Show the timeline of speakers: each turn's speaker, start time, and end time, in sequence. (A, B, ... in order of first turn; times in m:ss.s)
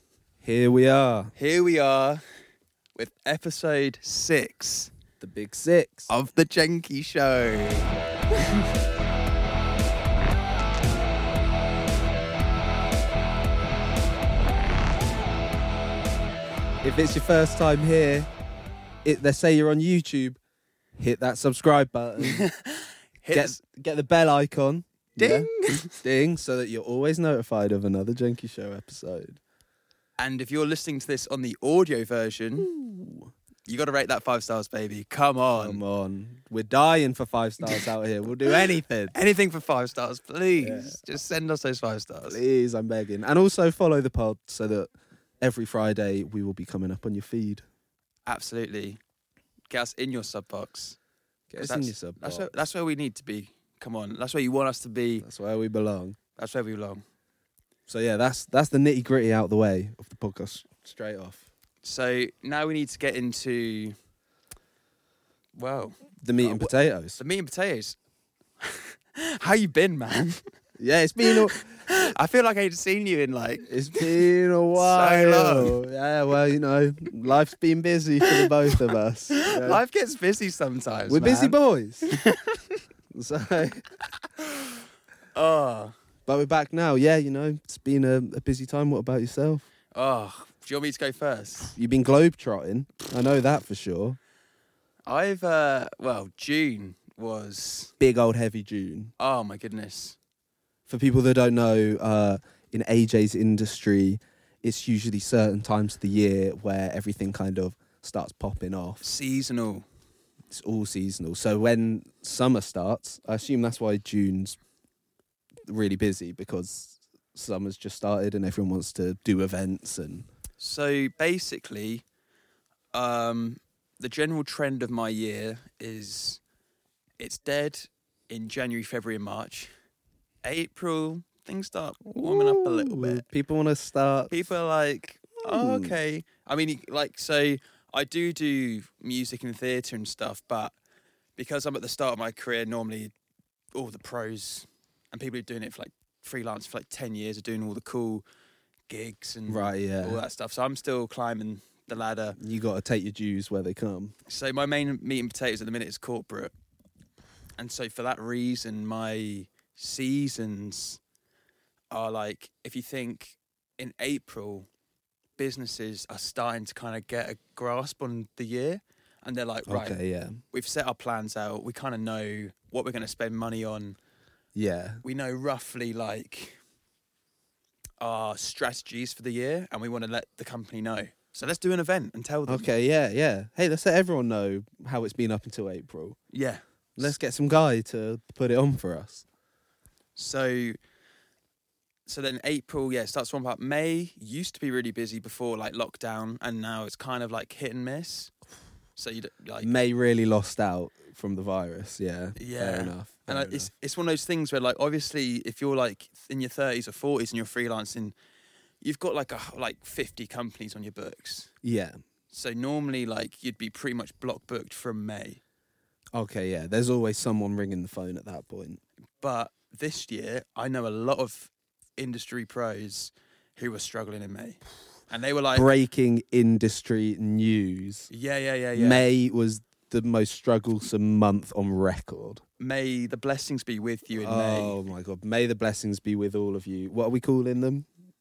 0:00.4-0:01.3 A
0:01.4-0:02.2 B
0:03.0-0:04.9 B
0:05.2-0:06.1 A
0:06.1-0:08.7 B
0:16.8-0:18.3 A
0:19.0-0:20.4 A
0:21.0-0:22.5 A
0:22.2-0:23.6 B
0:23.3-0:29.4 A
0:25.2-0:26.0 B
0:30.2-0:32.7 B
0:32.6-0:33.3 A
0:33.7-0:35.8 B
0:35.6-0:39.1 A
0:39.1-0:42.4 B
0:40.6-0:41.1 A
0:42.2-0:47.6 A
0:48.3-0:49.0 B
0:49.7-0:51.0 B
0:51.5-0:52.5 A
0:51.6-0:55.3 B
0:55.2-0:56.2 A
0:56.4-0:57.0 B
0:57.9-1:01.5 A
1:01.8-1:04.0 B
1:05.6-1:08.0 B
1:06.2-1:07.2 A
1:08.6-1:10.4 B
1:10.8-1:11.6 A
1:11.2-1:15.8 B
1:13.7-1:19.8 A
1:18.3-1:18.8 B
1:19.3-1:21.6 B
1:21.1-1:22.1 A
1:22.1-1:22.8 B
1:23.1-1:23.9 A
1:25.3-1:25.9 B
1:26.3-1:29.7 A
1:29.9-1:31.8 B
1:31.6-1:34.2 A
1:35.1-1:37.9 B
1:38.0-1:39.1 A
1:39.2-1:40.2 B
1:40.9-1:49.0 A
1:49.0-1:49.9 B
1:50.5-1:54.6 A
1:55.7-2:00.3 A
2:00.6-2:02.0 B
2:02.9-2:06.4 B
2:07.2-2:09.7 B
2:10.4-2:13.2 B
2:12.1-2:14.3 A
2:14.3-2:20.8 B
2:15.4-2:16.0 A
2:21.4-2:23.1 B
2:23.7-2:28.2 B
2:28.9-2:32.4 B
2:29.5-2:30.2 A
2:32.4-2:34.2 A
2:34.3-2:36.5 B
2:37.6-2:41.0 B
2:41.9-2:44.7 B
2:45.4-2:50.0 B
2:49.7-2:50.4 A
2:50.5-2:54.0 B
2:54.6-2:55.0 A
2:55.0-2:56.6 B
2:58.0-3:02.7 B
3:02.5-3:06.2 A
3:06.3-3:07.1 B
3:07.0-3:09.2 A
3:10.2-3:10.8 B
3:12.1-3:18.3 B
3:19.0-3:19.7 B
3:19.6-3:23.7 A
3:22.4-3:28.2 B
3:28.8-3:31.5 B
3:31.6-3:32.0 A
3:32.3-3:35.4 B
3:36.2-3:38.8 A
3:39.2-3:45.7 B
3:45.5-3:48.1 A
3:48.1-3:49.1 B
3:48.7-3:52.4 A
3:52.6-3:54.8 B
3:54.1-3:57.9 A